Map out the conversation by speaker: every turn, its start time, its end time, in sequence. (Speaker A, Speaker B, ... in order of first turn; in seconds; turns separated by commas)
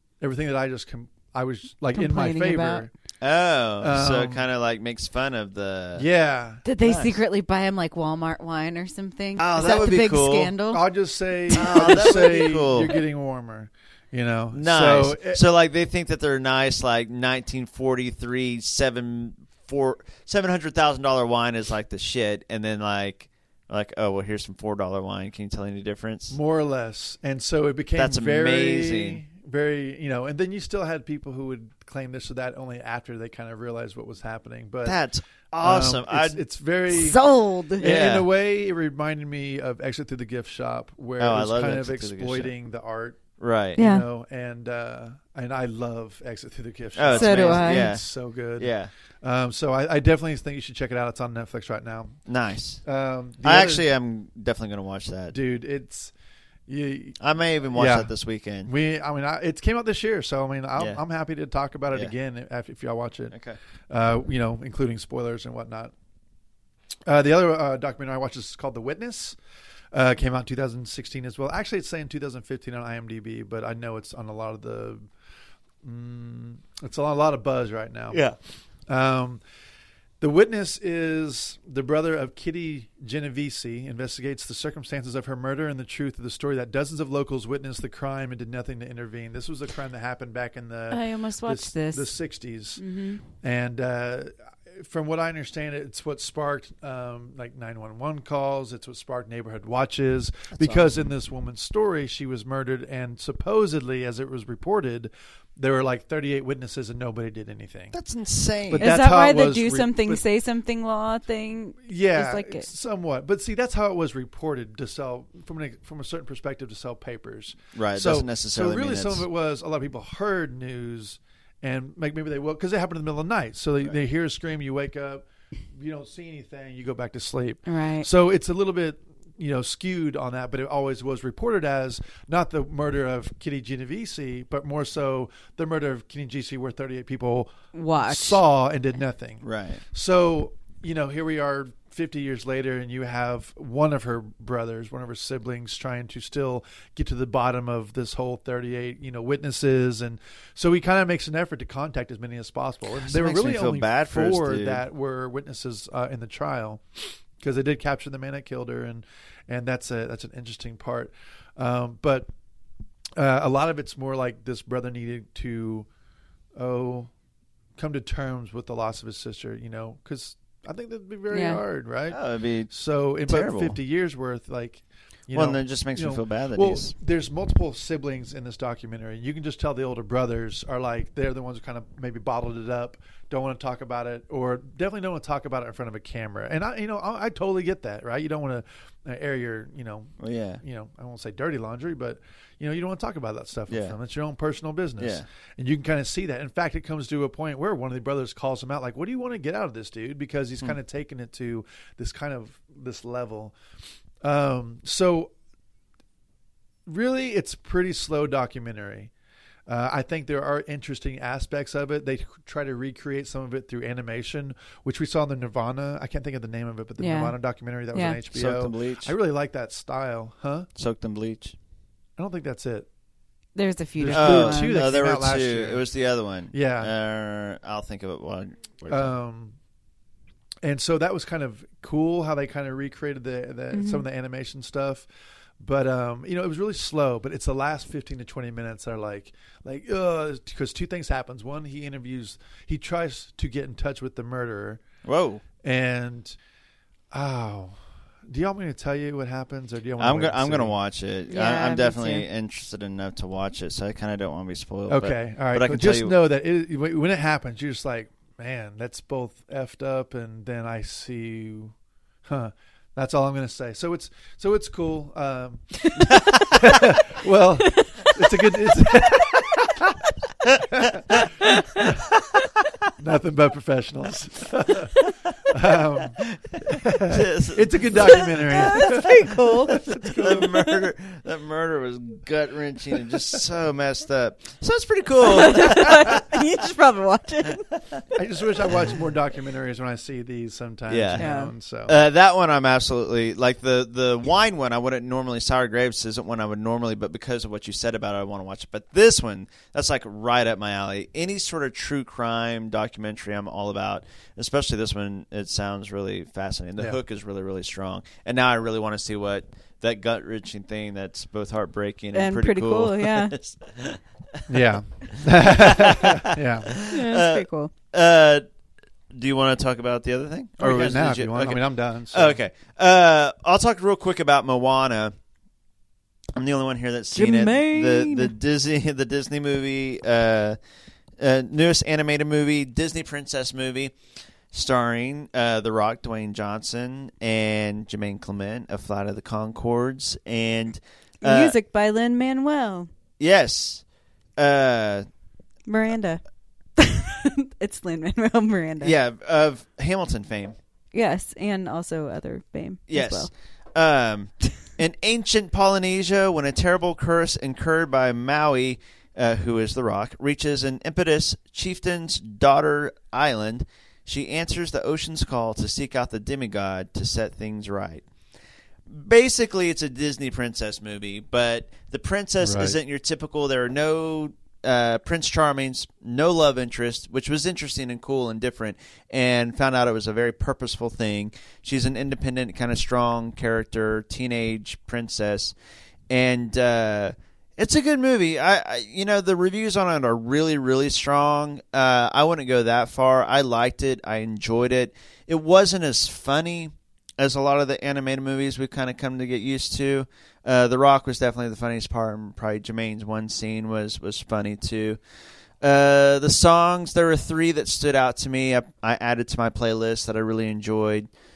Speaker A: 0.2-2.9, Speaker B: 1.9-2.9, Speaker C: 3.2-6.1, Speaker A: 3.8-4.4, Speaker A: 6.0-6.6, Speaker B: 6.6-10.8, Speaker C: 6.8-7.2, Speaker C: 9.4-10.5, Speaker A: 10.7-15.4, Speaker B: 11.5-12.3, Speaker C: 11.6-13.0, Speaker C: 14.5-26.4, Speaker A: 26.3-35.0, Speaker C: 28.0-29.2, Speaker C: 34.9-36.4, Speaker A: 35.6-37.2, Speaker B: 36.9-37.9, Speaker A: 37.8-43.2, Speaker C: 37.8-38.3, Speaker C: 41.2-42.5, Speaker C: 43.4-43.8, Speaker B: 43.8-44.1, Speaker A: 43.8-52.1, Speaker C: 47.0-48.0, Speaker B: 47.1-47.9, Speaker C: 48.6-48.9, Speaker C: 52.3-52.8, Speaker A: 52.9-53.9, Speaker C: 53.4-55.4, Speaker A: 55.3-56.1, Speaker A: 56.7-57.2, Speaker C: 57.2-58.7, Speaker A: 57.7-58.1, Speaker A: 58.6-63.4, Speaker C: 63.3-63.6, Speaker A: 63.9-65.9, Speaker A: 67.1-69.4, Speaker A: 69.9-75.0, Speaker A: 75.8-78.2, Speaker A: 78.9-79.4, Speaker A: 80.2-92.8, Speaker B: 90.9-92.1, Speaker B: 92.8-93.2, Speaker A: 93.4-108.0, Speaker C: 100.5-101.1, Speaker C: 107.9-108.9, Speaker A: 108.7-110.2, Speaker B: 108.8-112.7, Speaker A: 111.8-125.2, Speaker C: 117.8-119.2, Speaker A: 125.7-162.3, Speaker B: 127.7-128.1, Speaker B: 137.7-138.4, Speaker C: 139.4-139.8, Speaker C: 153.0-154.8, Speaker A: 163.2-165.9, Speaker A: 166.6-167.1, Speaker A: 167.8-172.2, Speaker B: 171.3-171.6, Speaker C: 172.1-172.7, Speaker A: 172.7-203.6, Speaker C: 173.3-173.8, Speaker C: 175.3-176.9, Speaker C: 190.2-190.6, Speaker C: 193.7-193.9, Speaker C: 195.0-195.2, Speaker A: 204.2-205.3, Speaker A: 206.9-209.1, Speaker A: 209.7-220.7, Speaker B: 217.0-217.4, Speaker B: 217.9-218.2, Speaker C: 218.3-219.1, Speaker C: 220.8-221.6, Speaker A: 222.2-222.9, Speaker B: 223.6-224.8, Speaker A: 224.0-225.8, Speaker C: 224.1-229.1, Speaker A: 226.5-226.9, Speaker A: 228.9-229.6, Speaker A: 230.6-235.1, Speaker B: 233.7-234.1, Speaker A: 235.6-244.8, Speaker C: 245.0-245.4, Speaker A: 245.6-246.4, Speaker A: 247.1-250.8, Speaker C: 250.0-256.1, Speaker B: 251.3-252.2, Speaker A: 254.9-261.7, Speaker A: 262.3-270.0, Speaker A: 270.7-271.2, Speaker A: 271.8-272.0, Speaker A: 273.0-274.9, Speaker A: 275.5-280.5, Speaker C: 276.2-278.9, Speaker B: 278.3-279.9, Speaker C: 280.2-286.3, Speaker B: 285.2-287.6, Speaker A: 288.1-291.9, Speaker C: 290.9-291.4, Speaker B: 291.2-291.5, Speaker C: 291.9-314.6, Speaker B: 312.1-313.4, Speaker A: 314.5-316.8, Speaker C: 315.1-318.4, Speaker B: 316.9-317.7, Speaker C: 319.1-325.1, Speaker A: 320.6-322.4, Speaker C: 326.4-330.6, Speaker B: 327.1-328.3, Speaker C: 331.2-333.9, Speaker C: 334.5-341.6, Speaker B: 341.2-342.9, Speaker C: 343.2-343.8, Speaker C: 344.4-345.1, Speaker B: 345.7-346.2, Speaker B: 346.8-348.9, Speaker C: 348.8-350.6, Speaker B: 350.9-353.3, Speaker C: 352.9-368.0, Speaker C: 368.9-385.6, Speaker A: 372.4-372.8, Speaker C: 386.1-405.0, Speaker C: 405.6-411.1